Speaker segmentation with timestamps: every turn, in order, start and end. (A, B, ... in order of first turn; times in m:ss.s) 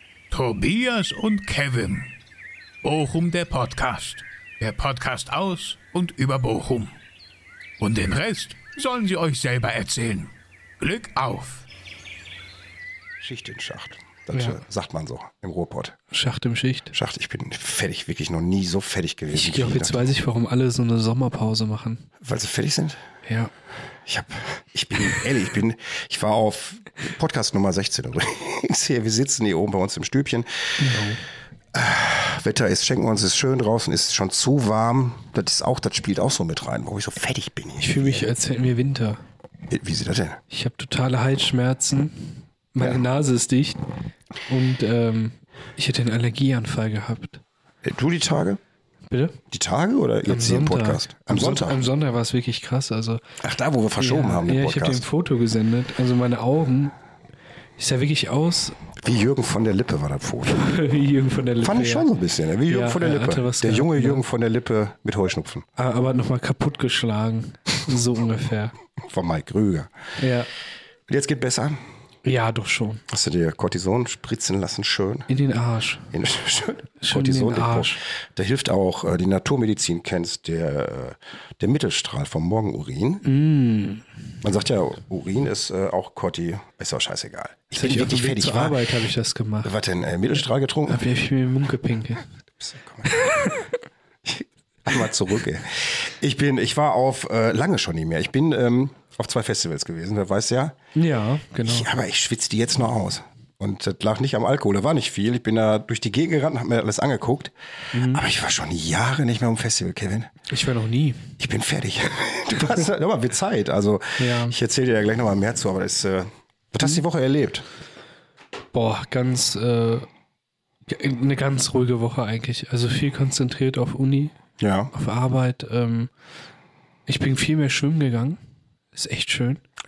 0:00.3-0:02.1 A
0:02.8-0:06.9 A
0:07.8-0:11.6 A
0:13.2-0:16.0 B
0:14.3-0:14.6 C
0:16.1-0:16.9 C
0:16.9-0:20.1 B
0:19.3-0:22.1 C
0:22.2-0:23.0 B
0:23.3-0:23.5 C
0:24.0-0:30.9 B
0:30.8-0:31.2 C
0:31.7-0:38.3 B
0:37.8-0:39.2 C
0:39.7-0:40.4 B
0:40.5-0:43.8 C
0:42.8-0:43.0 B
0:44.5-0:47.4 C
0:47.8-0:48.6 B
0:49.1-0:49.4 C
0:49.5-0:51.8 B
0:50.3-0:53.2 C
0:53.4-0:55.0 B
0:54.0-0:56.9 C
0:57.8-0:58.8 C
0:59.0-1:00.6 B
1:00.5-1:02.1 C
1:01.6-1:05.6 B
1:02.7-1:04.2 C
1:05.8-1:08.7 C
1:09.0-1:09.9 B
1:10.2-1:10.5 C
1:11.1-1:11.8 B
1:12.2-1:13.0 C
1:13.1-1:15.3 B
1:15.3-1:16.1 C
1:16.1-1:23.2 B
1:17.0-1:18.0 C
1:23.2-1:24.1 C
1:24.4-1:28.8 B
1:27.7-1:29.7 C
1:29.6-1:31.0 B
1:30.9-1:32.3 C
1:32.6-1:33.1 B
1:33.0-1:33.7 C
1:34.2-1:40.8 B
1:41.0-1:41.9 C
1:41.6-1:47.5 B
1:47.9-1:48.2 C
1:48.0-1:50.3 B
1:50.5-1:51.3 C
1:51.4-1:57.6 B
1:54.2-1:54.6 C
1:58.7-2:00.1 C
2:00.9-2:04.4 C
2:04.6-2:04.9 B
2:04.9-2:06.1 C
2:07.1-2:08.4 C
2:08.9-2:09.6 C